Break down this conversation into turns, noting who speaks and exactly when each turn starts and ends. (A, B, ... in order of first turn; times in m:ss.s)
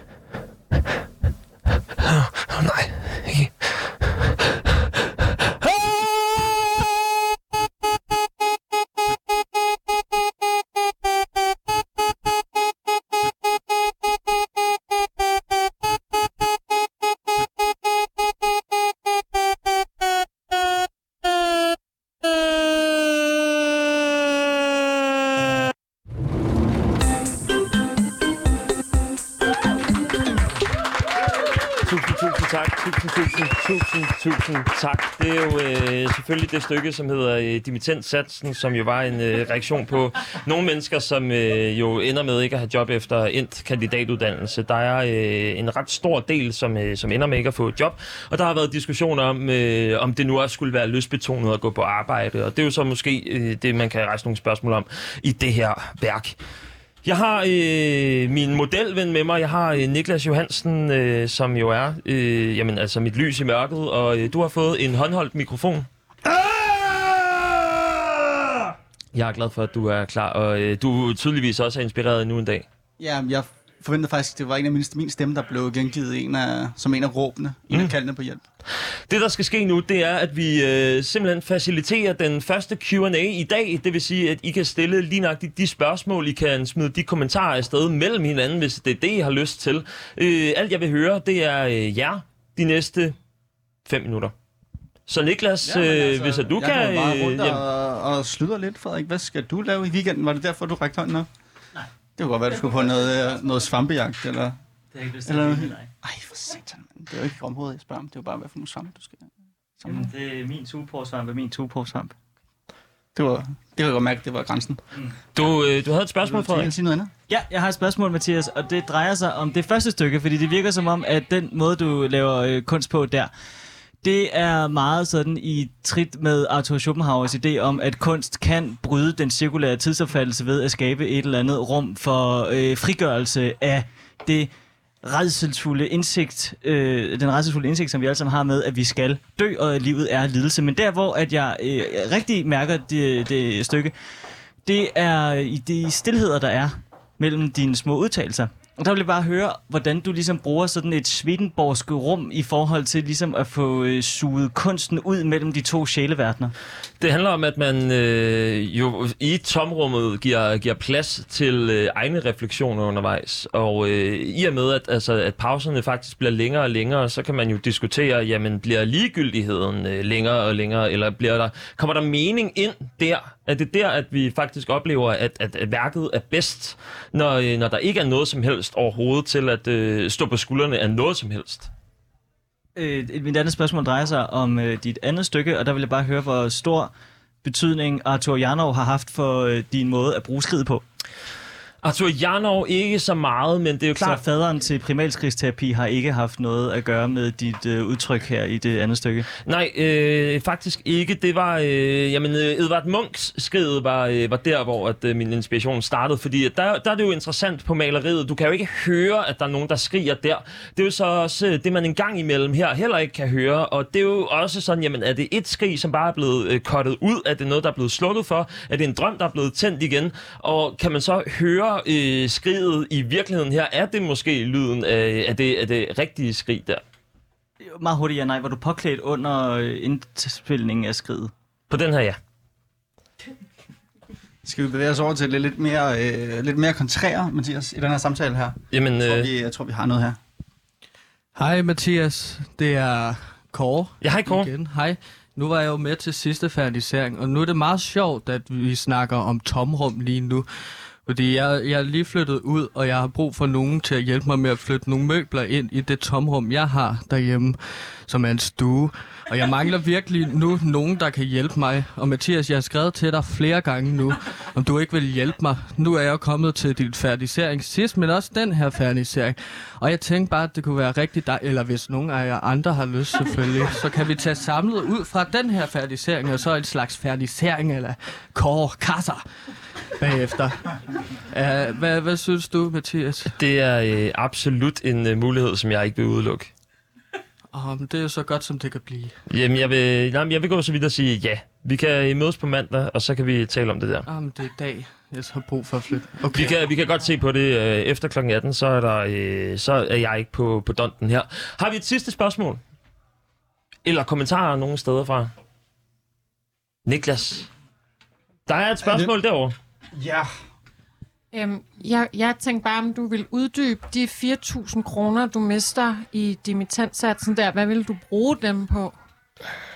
0:02.0-0:04.0 A
0:05.6-0:06.3 A
0:31.8-0:56.3 A
0:57.0-1:07.5 A
1:09.1-1:12.6 A
1:13.0-1:18.4 B
1:19.1-1:33.1 A
1:33.8-1:34.3 A
1:35.1-1:37.6 A
1:35.6-1:41.3 B
1:42.2-1:44.5 B
1:44.9-1:45.9 C
1:45.2-1:49.2 B
1:49.8-1:50.1 B
1:49.8-1:52.1 C
1:53.1-1:54.8 B
1:55.3-1:56.7 A
1:56.2-1:57.1 B
1:57.3-2:03.3 C
2:04.0-2:14.5 C
2:15.0-2:23.9 C
2:24.6-2:36.5 C
2:37.0-3:01.7 A
3:02.8-3:06.9 C
3:07.4-3:10.8 C
3:11.8-3:14.2 A
3:14.0-3:19.3 C
3:19.4-3:46.8 A
3:47.6-3:51.3 C
3:51.7-3:52.2 A
3:54.4-4:00.2 B
3:58.7-3:59.3 A
4:01.3-4:43.4 D
4:04.0-4:04.5 A
4:43.3-4:46.5 A
4:47.5-4:49.2 D
4:49.3-4:54.1 A
4:54.0-4:56.6 D
4:56.3-5:02.6 A
5:03.8-5:05.3 A
5:06.8-5:07.5 A
5:08.5-5:09.5 A
5:09.9-5:10.3 B
5:11.3-5:19.0 E